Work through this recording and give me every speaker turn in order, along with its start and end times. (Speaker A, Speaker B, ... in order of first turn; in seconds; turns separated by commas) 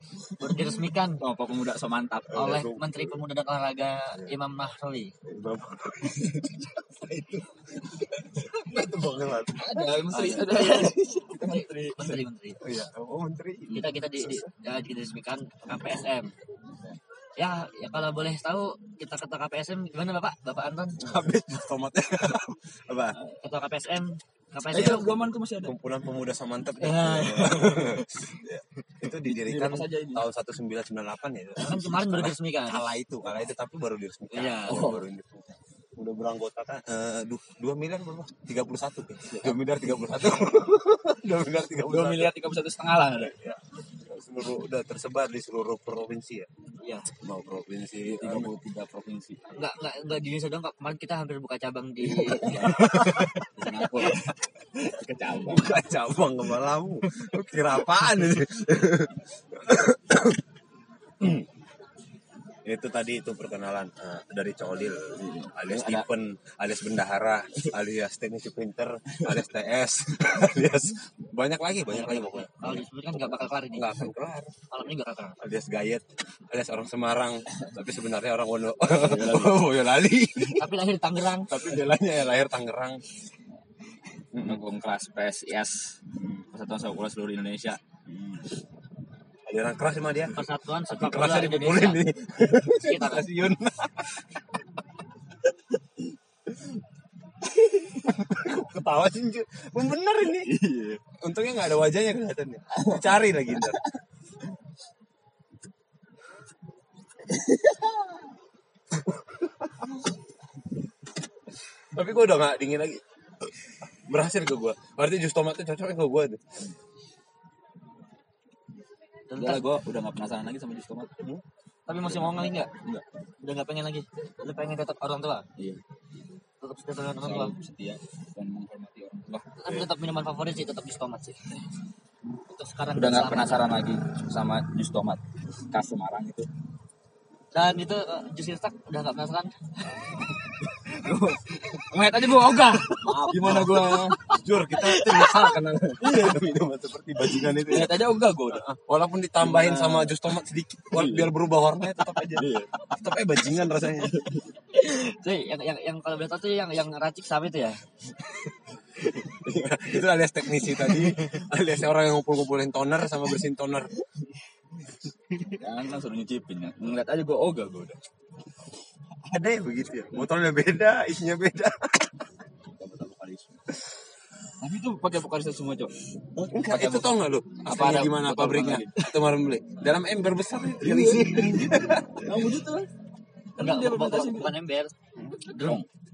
Speaker A: 0.4-1.2, Speaker B: 1.2-2.6, Speaker C: 2.3-3.2, Speaker A: 2.3-5.1, Speaker C: 5.2-10.0, Speaker B: 6.2-6.6, Speaker B: 9.6-12.2, Speaker A: 10.1-12.6, Speaker C: 12.6-14.4, Speaker A: 13.7-16.3, Speaker A: 17.4-21.0, Speaker C: 21.0-23.2, Speaker A: 23.4-25.2, Speaker B: 24.7-25.7, Speaker C: 24.7-42.3, Speaker A: 26.8-27.9, Speaker B: 29.2-30.2, Speaker A: 31.6-32.9, Speaker A: 34.3-35.0, Speaker B: 34.7-35.0, Speaker B: 39.3-39.6, Speaker B: 41.8-43.4, Speaker C: 43.2-46.5, Speaker A: 46.8-47.1, Speaker C: 47.1-48.5, Speaker B: 48.0-49.6, Speaker A: 49.5-53.1, Speaker B: 52.1-55.8, Speaker C: 52.5-54.3, Speaker C: 55.4-60.4, Speaker C: 61.2-61.5, Speaker C: 62.7-74.5, Speaker B: 65.2-66.1, Speaker A: 71.9-74.1, Speaker A: 74.7-75.4, Speaker C: 75.4-80.7, Speaker B: 79.0-79.7, Speaker A: 80.5-81.5, Speaker C: 81.5-83.0, Speaker C: 84.3-84.6, Speaker B: 84.3-87.8, Speaker C: 88.1-88.5, Speaker C: 89.5-94.6, Speaker A: 90.3-92.0, Speaker A: 92.6-93.3, Speaker C: 97.5-100.5, Speaker B: 100.5-101.0, Speaker C: 101.1-103.9, Speaker B: 102.7-103.8, Speaker C: 112.0-113.0, Speaker C: 114.1-116.4, Speaker A: 119.3-119.7, Speaker B: 119.4-121.1, Speaker A: 121.9-122.7, Speaker B: 122.0-123.0, Speaker A: 123.4-125.5, Speaker B: 125.6-125.8, Speaker A: 126.6-127.5, Speaker B: 127.2-129.5, Speaker A: 129.6-131.4, Speaker A: 132.5-133.7, Speaker B: 133.0-136.5, Speaker A: 137.5-139.6, Speaker B: 140.6-144.2, Speaker C: 143.0-154.2, Speaker A: 145.0-145.5, Speaker B: 146.0-146.5, Speaker B: 147.4-148.7, Speaker B: 149.4-150.2, Speaker B: 150.9-151.3, Speaker B: 152.3-152.8, Speaker B: 154.1-154.4, Speaker A: 154.7-157.8, Speaker C: 159.1-164.0, Speaker B: 165.6-168.0, Speaker C: 169.3-172.2, Speaker B: 172.8-173.6, Speaker B: 174.6-175.9, Speaker C: 176.4-182.5, Speaker B: 176.7-179.1, Speaker A: 177.7-178.1, Speaker B: 180.8-182.9, Speaker B: 183.6-184.5, Speaker A: 183.6-185.8